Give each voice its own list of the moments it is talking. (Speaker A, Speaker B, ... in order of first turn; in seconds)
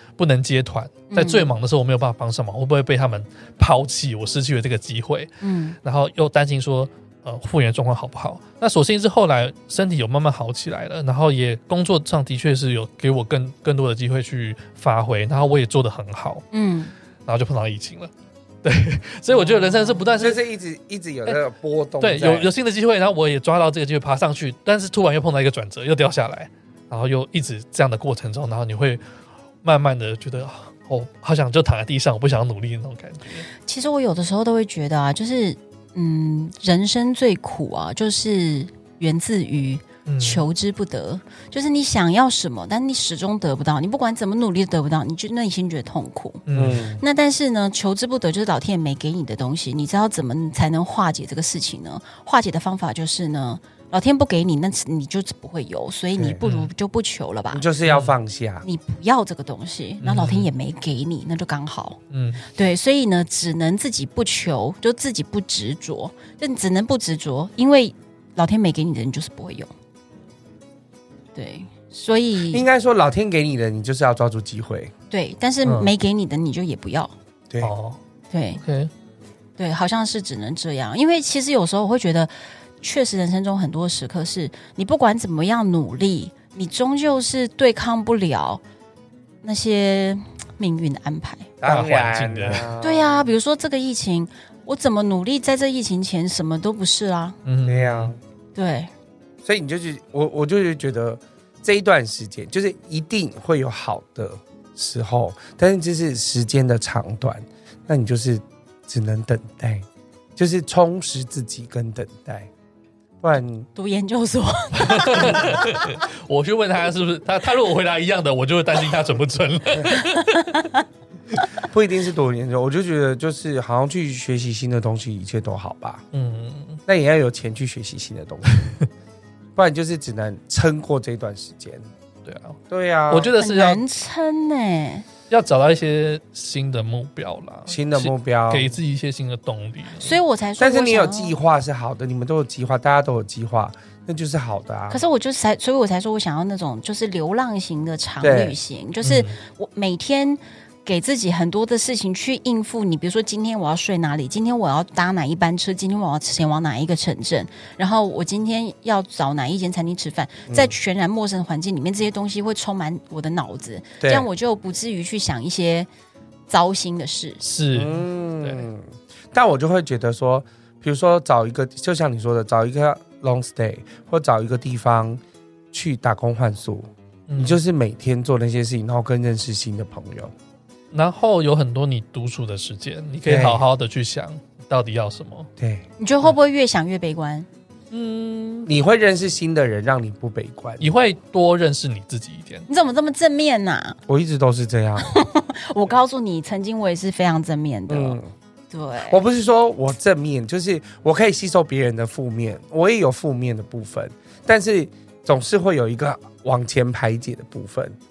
Speaker A: 0.2-5.3, 5.8-16.4, 17.3-18.1, 18.6-20.4, 22.0-29.0, 29.6-33.5, 40.1-40.5, 46.5-46.8, 56.4-56.7, 57.9-58.1, 60.0-60.5, 62.1-62.5, 75.6-75.9, 77.6-78.0, 78.6-78.9, 91.6-92.7, 97.5-98.1, 114.8-120.6, 126.1-126.8, 132.2-133.8, 135.3-140.1, 149.0-149.3, 167.4-168.7, 177.3-177.6, 180.9-185.5, 187.9-188.7, 190.8-192.7
Speaker B: 1.1-1.5, 5.4-5.8, 16.5-16.9, 19.3-20.1, 33.6-46.4, 47.0-57.6, 58.6-62.0, 62.5-69.7, 71.3-72.7, 75.1-77.1, 78.3-78.6, 79.6-88.6, 89.4-91.5, 92.8-97.4, 98.5-98.9, 113.8-115.9, 119.9-120.8, 133.4-135.1, 140.0-141.4, 144.9-165.9, 166.5-167.4, 186.0-187.5, 192.7-194.0, 195.0-198.2, 198.7-199.2
Speaker C: 20.2-22.5, 46.5-47.0, 56.2-56.4, 57.5-58.7, 72.5-74.9, 91.6-93.3, 97.7-98.2, 99.4-112.5, 113.2-113.7, 121.6-126.0, 126.9-128.7, 129.6-131.9, 132.7-133.3, 137.7-138.8, 140.6-145.0, 148.2-148.6, 160.5-160.7, 164.0-164.3, 167.7-175.2, 175.7-180.3, 183.3-183.7, 185.6-185.9, 188.7-190.9, 194.1-195.1, 197.9-198.3, 199.0-208.0